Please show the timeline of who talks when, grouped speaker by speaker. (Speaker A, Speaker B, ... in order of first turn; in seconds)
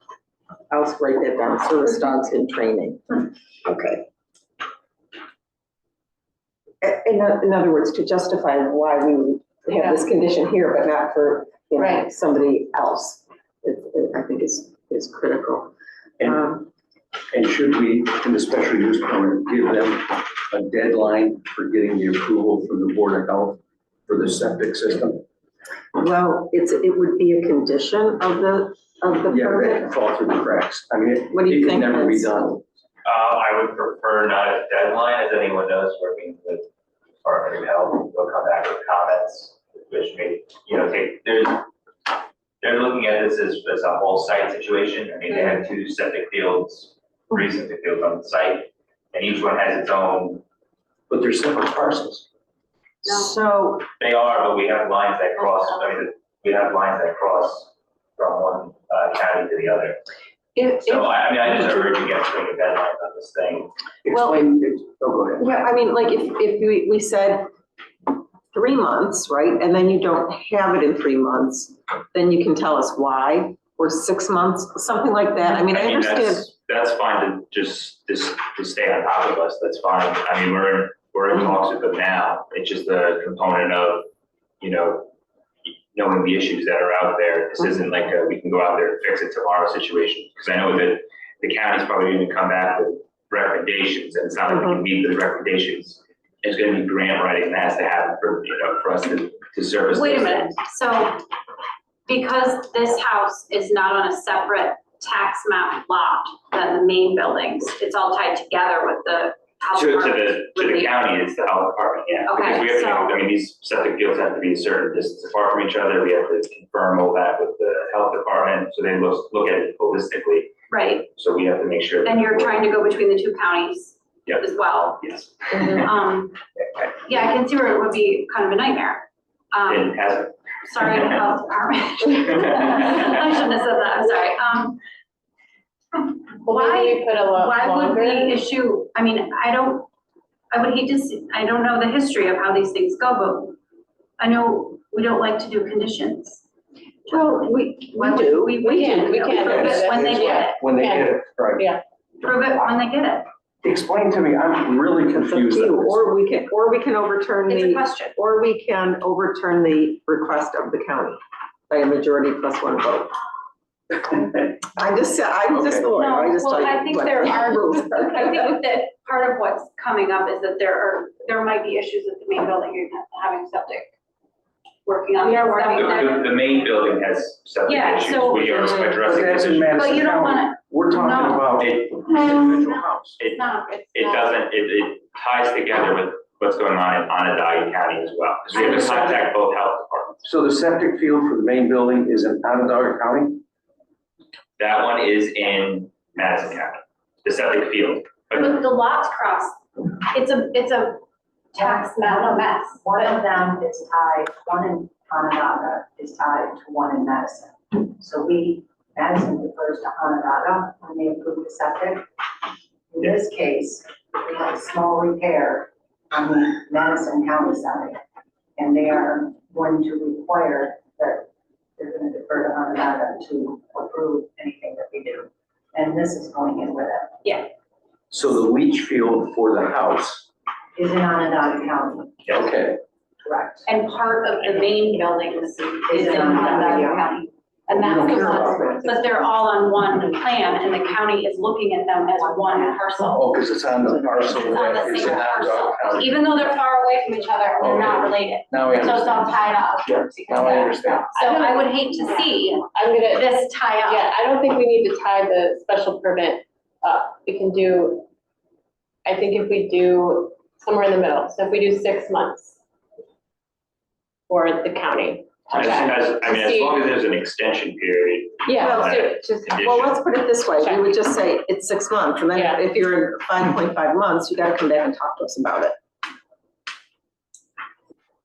Speaker A: 0.7-4.0, 6.8-16.7, 26.0-30.0, 31.3-32.6, 53.2-53.7, 65.4-67.5, 68.5-76.5, 147.1-149.7, 155.2-163.2, 164.1-168.6, 269.6-275.8
Speaker B: 16.2-16.5, 17.3-25.2, 29.3-32.7, 51.1-52.3, 64.0-65.5, 149.4-151.8, 153.6-156.2, 165.5-165.9, 179.0-183.2, 188.5-189.3, 190.2-193.4, 228.1-230.3, 232.3-232.8, 237.8-238.7, 243.0-246.2, 247.6-249.3, 249.9-251.1
Speaker C: 33.0-36.7, 37.2-41.7, 42.6-50.4, 53.8-60.0, 60.6-63.7, 75.5-84.1, 84.6-85.1, 85.9-100.6, 109.8-120.5, 121.1-122.7, 124.3-125.8, 129.7-131.2, 175.7-179.8, 181.6-182.1, 183.9-190.2, 194.6-198.6, 265.5-270.0
Speaker D: 99.9-101.2, 102.1-111.0, 112.2-113.2, 120.7-121.1, 122.0-126.4, 127.0-130.0, 130.6-134.8, 135.9-139.9, 140.5-143.6, 144.2-146.4, 147.9-150.7, 152.2-153.3, 157.5-158.2, 166.0-173.9, 174.8-176.7, 177.7-179.0, 179.7-184.4, 198.3-201.0, 201.5-203.2, 227.2-227.5, 233.7-243.4, 244.1-254.1
Speaker E: 136.4-138.4, 148.5-151.8, 175.2-175.9, 250.7-258.1, 259.1-262.6, 264.3-266.8, 268.4-269.6
Speaker F: 201.6-212.0, 212.9-218.0, 218.6-227.2, 230.8-232.2, 233.2-233.7, 235.9-237.1, 237.9-239.3, 242.2-242.8